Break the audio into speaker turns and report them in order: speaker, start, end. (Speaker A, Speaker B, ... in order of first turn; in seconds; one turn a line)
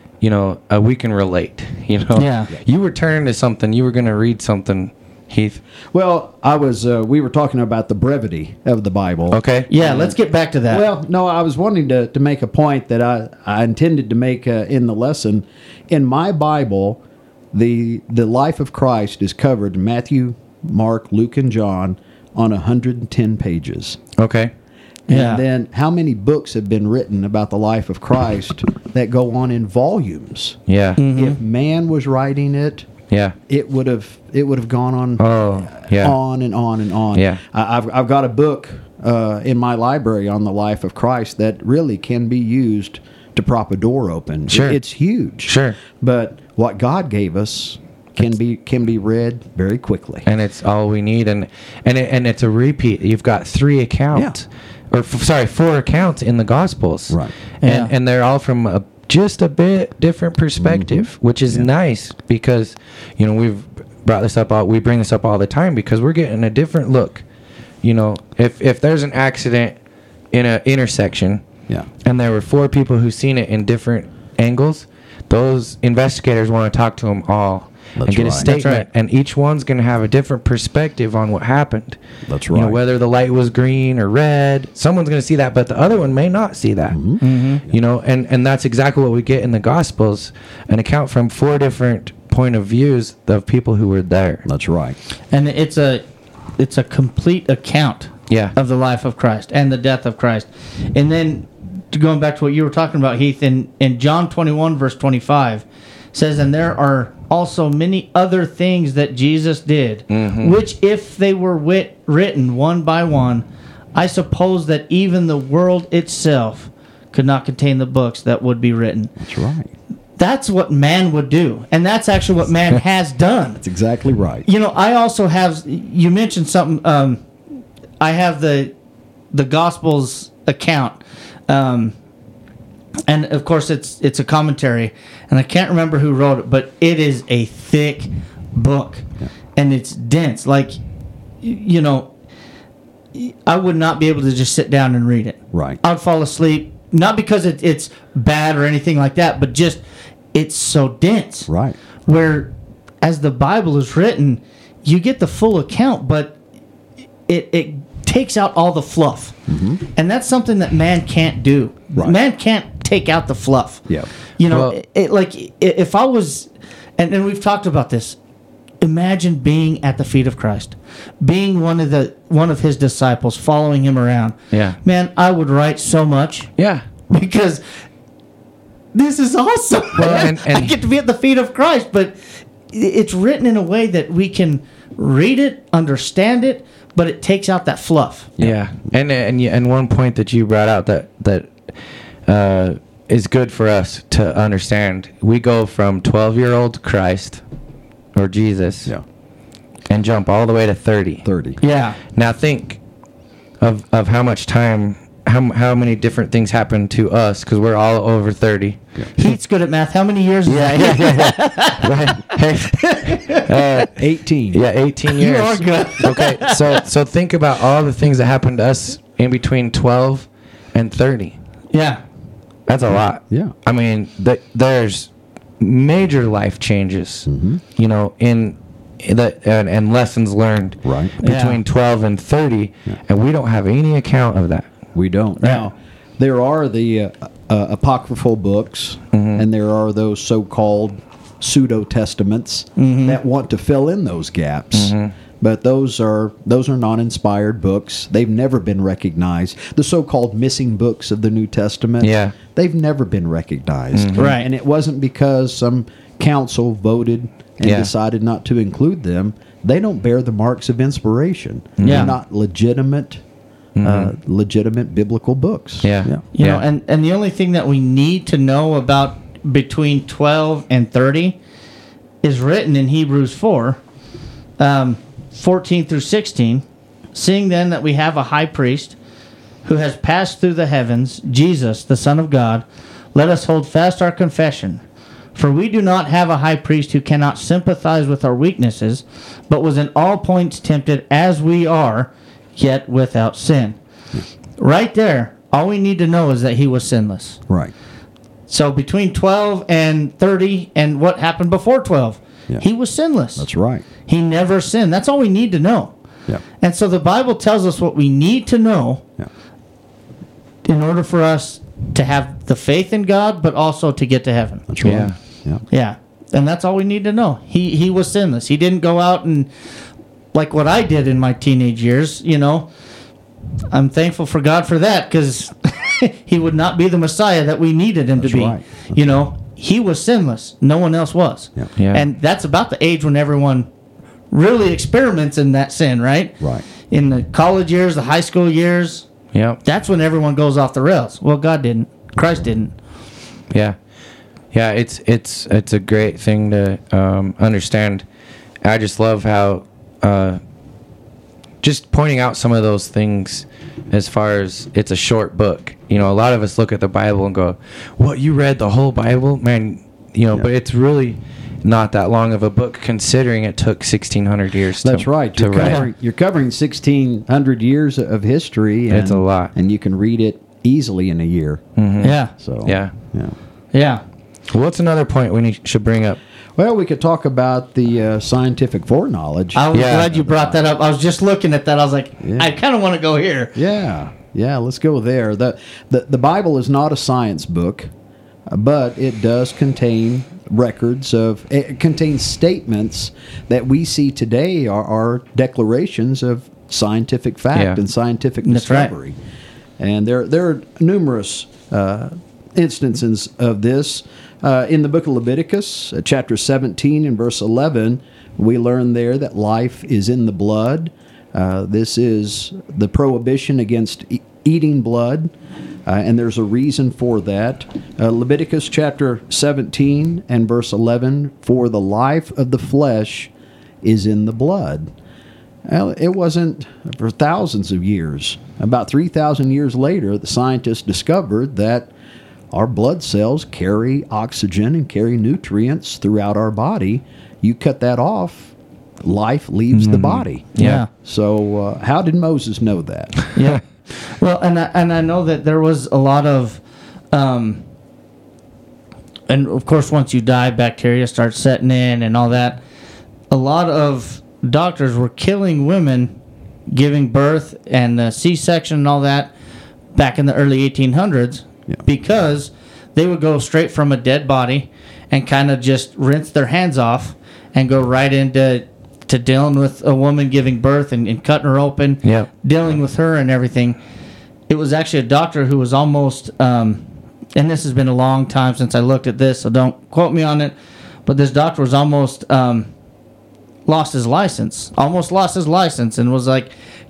Speaker A: 0.2-5.6
Speaker B: 2.2-2.5
Speaker C: 5.9-10.2
Speaker A: 9.3-9.7
Speaker B: 9.7-10.9
Speaker C: 10.7-17.0
Speaker C: 17.5-24.0
Speaker A: 24.2-24.5
Speaker C: 25.1-30.6
Speaker B: 25.1-25.4
Speaker A: 30.7-31.0
Speaker B: 31.0-31.4
Speaker C: 31.1-32.9
Speaker A: 33.1-33.4
Speaker C: 33.5-50.3
Speaker A: 35.2-36.2
Speaker A: 37.1-37.4
Speaker A: 44.5-44.8
Speaker A: 45.5-45.8
Speaker A: 50.2-67.2
Speaker B: 57.6-57.9
Speaker C: 60.6-61.7
Speaker A: 67.8-69.8
Speaker A: 70.3-71.5
Speaker A: 72.0-82.0
Speaker C: 78.0-78.5
Speaker B: 78.4-78.8
Speaker C: 82.3-82.8
Speaker A: 82.5-87.0
Speaker C: 86.9-87.2
Speaker B: 87.2-87.6
Speaker A: 87.7-94.5
Speaker C: 94.5-95.0
Speaker B: 95.3-96.0
Speaker B: 96.6-119.1
Speaker A: 110.1-110.5
Speaker C: 119.2-119.7
Speaker B: 120.2-123.6
Speaker C: 123.6-124.5
Speaker B: 124.5-127.2
Speaker B: 128.0-128.7
Speaker B: 129.3-131.9
Speaker B: 133.1-139.1
Speaker B: 139.6-140.8
Speaker B: 141.4-142.1
Speaker B: 143.2-149.8
Speaker C: 145.5-145.8
Speaker B: 150.3-151.5
Speaker C: 151.5-151.8
Speaker B: 152.1-156.4
Speaker B: 157.3-159.4
Speaker C: 159.5-159.8
Speaker B: 159.9-163.9
Speaker B: 164.4-168.2
Speaker A: 164.5-164.8
Speaker B: 168.8-176.5
Speaker A: 174.5-174.8
Speaker A: 176.6-176.8
Speaker B: 177.1-177.6
Speaker B: 178.9-182.2
Speaker A: 180.0-180.8
Speaker B: 182.7-188.3
Speaker A: 188.4-191.6
Speaker A: 192.3-197.4
Speaker A: 198.2-198.9
Speaker A: 199.9-201.3
Speaker C: 201.2-201.6
Speaker B: 201.6-202.0
Speaker A: 202.1-202.8
Speaker A: 203.6-209.3
Speaker B: 209.2-213.7
Speaker A: 210.5-214.0
Speaker C: 213.9-214.6
Speaker A: 214.5-221.4
Speaker B: 215.1-216.8
Speaker B: 221.7-222.0
Speaker A: 222.7-234.7
Speaker C: 227.3-227.6
Speaker C: 230.8-231.2
Speaker B: 231.2-231.6
Speaker C: 234.9-263.2
Speaker A: 239.1-239.4
Speaker B: 242.8-243.2
Speaker A: 244.7-245.1
Speaker A: 252.0-252.3
Speaker A: 253.9-254.3
Speaker B: 254.2-254.5
Speaker A: 257.6-257.9
Speaker A: 261.8-262.1
Speaker B: 261.8-262.1
Speaker A: 263.8-264.1
Speaker C: 263.8-266.2
Speaker A: 265.8-266.6
Speaker B: 266.3-271.4
Speaker B: 272.2-273.8
Speaker B: 274.6-279.0
Speaker B: 279.6-284.8
Speaker B: 285.4-293.8
Speaker B: 294.6-297.4
Speaker B: 298.5-303.4
Speaker C: 303.4-303.9
Speaker B: 304.1-305.9
Speaker B: 306.6-309.0
Speaker B: 310.6-314.7
Speaker C: 314.7-315.6
Speaker A: 314.8-315.2
Speaker B: 315.7-319.5
Speaker B: 320.3-322.7
Speaker B: 323.7-333.7
Speaker C: 328.2-329.0
Speaker A: 331.8-332.1
Speaker B: 334.3-339.1
Speaker A: 339.3-339.6
Speaker B: 339.6-342.7
Speaker A: 343.5-343.8
Speaker A: 344.5-348.0
Speaker A: 348.6-350.4
Speaker A: 351.6-365.8
Speaker C: 364.8-371.6
Speaker B: 365.6-365.9
Speaker A: 368.9-369.5
Speaker A: 371.8-372.9
Speaker B: 372.0-372.3
Speaker C: 372.4-373.3
Speaker B: 373.7-374.0
Speaker A: 374.5-376.2
Speaker C: 376.6-380.6
Speaker B: 379.6-383.6
Speaker A: 379.7-380.1
Speaker C: 382.2-382.5
Speaker C: 383.6-387.9
Speaker C: 388.5-399.2
Speaker A: 397.5-397.8
Speaker B: 398.4-398.9
Speaker C: 399.8-415.3
Speaker C: 415.9-423.3
Speaker C: 423.8-424.9
Speaker C: 425.7-431.9
Speaker C: 432.5-443.2
Speaker A: 439.7-440.8
Speaker B: 440.6-440.9
Speaker B: 443.4-446.6
Speaker B: 447.1-447.6
Speaker B: 449.3-452.6
Speaker B: 453.3-456.1
Speaker B: 456.7-459.3
Speaker B: 459.9-473.8
Speaker A: 472.0-472.3
Speaker B: 474.5-476.8
Speaker B: 477.4-480.6
Speaker B: 481.1-482.7
Speaker B: 483.7-486.5